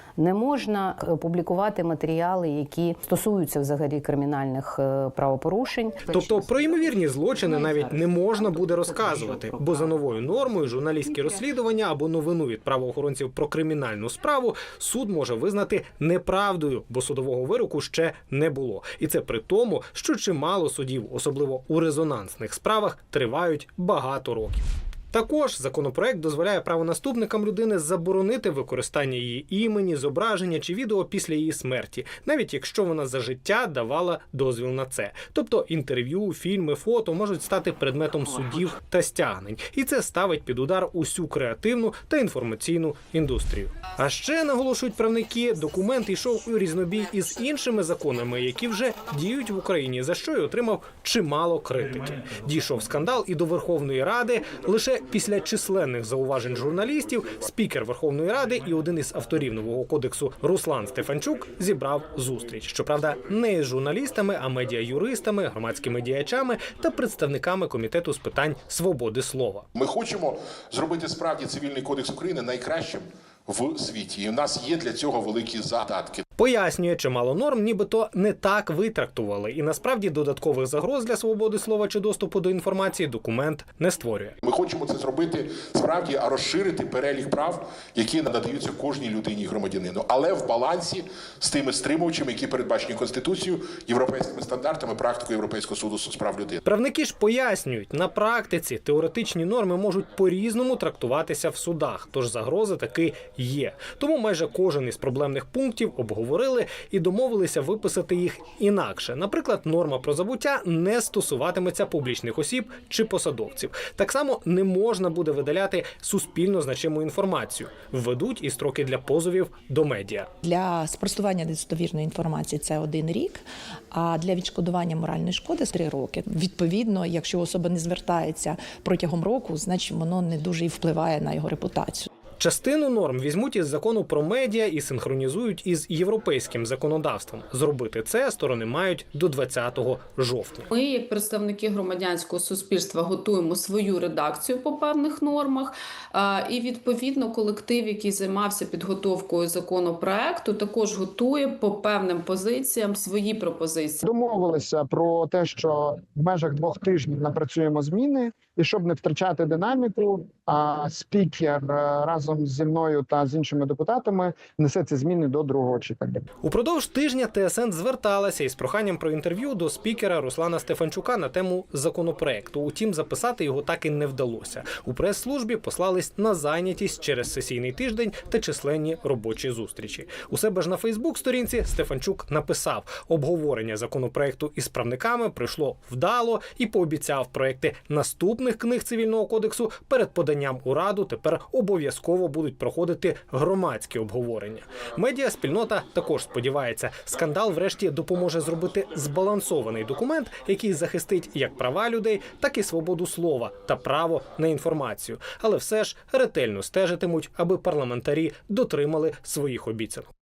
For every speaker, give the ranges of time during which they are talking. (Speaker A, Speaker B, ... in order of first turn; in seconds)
Speaker A: 0.2-6.3
Speaker B: 6.0-69.7, 76.4-84.3, 96.7-120.3, 132.4-140.7, 166.4-210.1
Speaker C: 69.7-76.2, 84.4-96.6
Speaker D: 120.4-132.1
Speaker E: 140.7-154.0
Speaker F: 154.0-166.2